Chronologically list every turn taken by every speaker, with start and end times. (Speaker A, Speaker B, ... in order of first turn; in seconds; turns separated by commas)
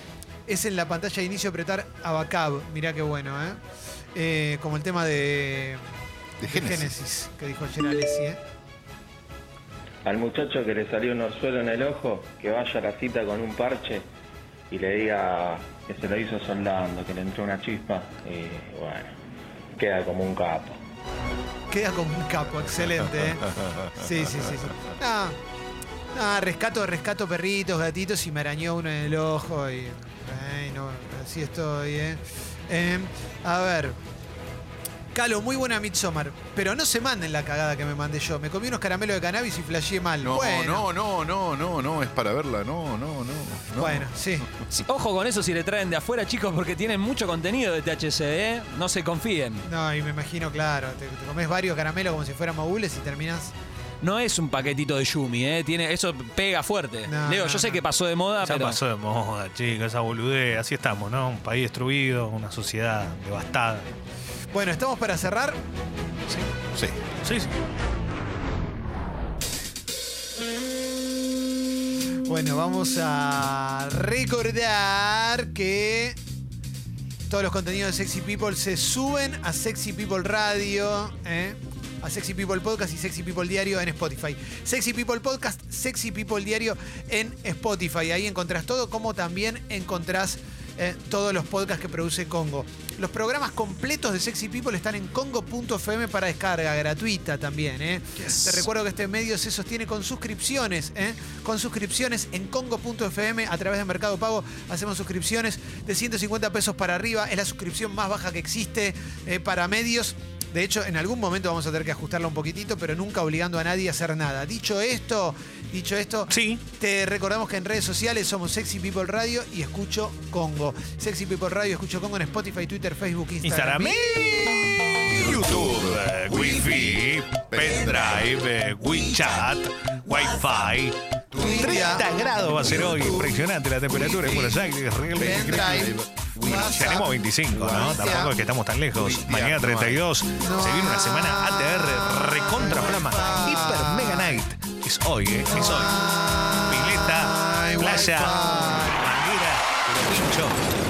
Speaker A: 0.5-3.6, Speaker A: 4.1-5.8, Speaker B: 6.4-7.0, Speaker A: 6.5-8.4, Speaker C: 10.0-14.1, Speaker C: 14.7-19.1, Speaker C: 19.8-20.8, Speaker A: 21.7-25.4, Speaker A: 26.1-34.0, Speaker A: 35.1-40.9, Speaker B: 40.2-44.6, Speaker A: 43.8-44.5, Speaker D: 44.7-49.6, Speaker A: 49.6-53.5, Speaker D: 54.0-58.8, Speaker A: 57.0-57.8, Speaker E: 58.4-63.9, Speaker A: 64.5-65.6, Speaker E: 67.2-67.5, Speaker A: 72.3-76.2, Speaker A: 77.3-124.1, Speaker E: 98.2-98.6, Speaker E: 116.3-116.6, Speaker E: 123.4-135.9, Speaker B: 125.1-128.3, Speaker B: 130.2-133.3, Speaker A: 131.4-132.1, Speaker A: 133.9-134.6, Speaker B: 135.2-138.2, Speaker A: 135.2-137.1, Speaker E: 136.5-145.9, Speaker A: 137.7-138.3, Speaker B: 138.9-140.0, Speaker A: 140.4-144.4, Speaker A: 145.5-149.0, Speaker E: 146.7-150.6